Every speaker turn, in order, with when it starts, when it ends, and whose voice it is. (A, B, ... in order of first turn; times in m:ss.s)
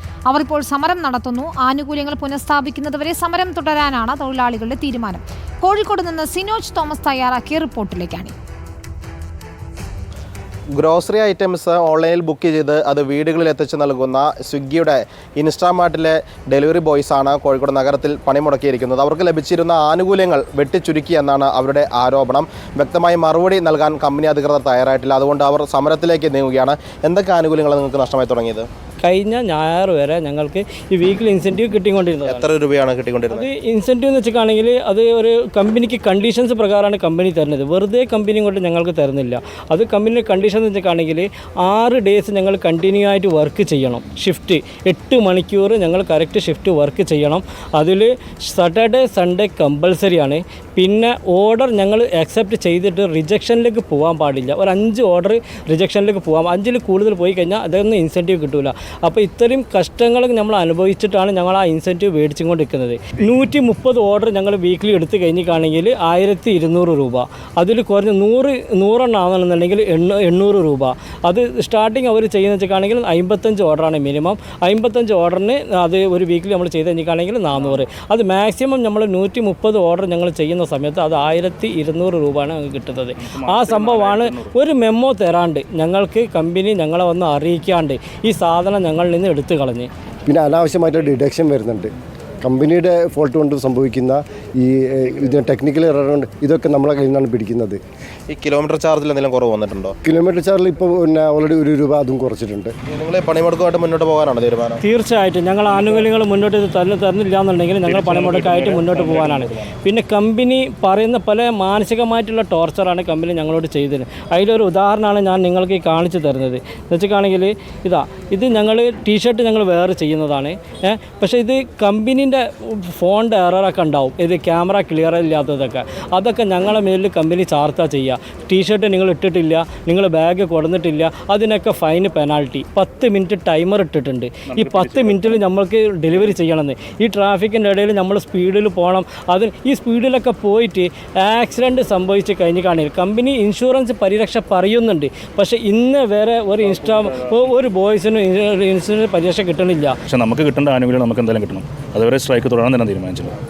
0:00.3-0:08.3 A
0:10.8-0:28.6 B
0:29.0-0:32.5 C
0:32.2-0:33.5 B
0:33.3-1:29.9 C
1:17.6-1:17.9 D
1:23.2-1:24.6 D
1:30.3-1:31.9 E
1:32.4-1:37.8 E
1:38.3-1:40.0 B
1:40.0-1:42.7 E
1:42.9-1:44.8 B
1:44.8-2:30.0 C
1:45.7-1:46.1 D
1:47.8-1:49.8 D
2:14.4-2:15.5 D
2:26.6-2:27.5 D
2:30.1-2:33.4 D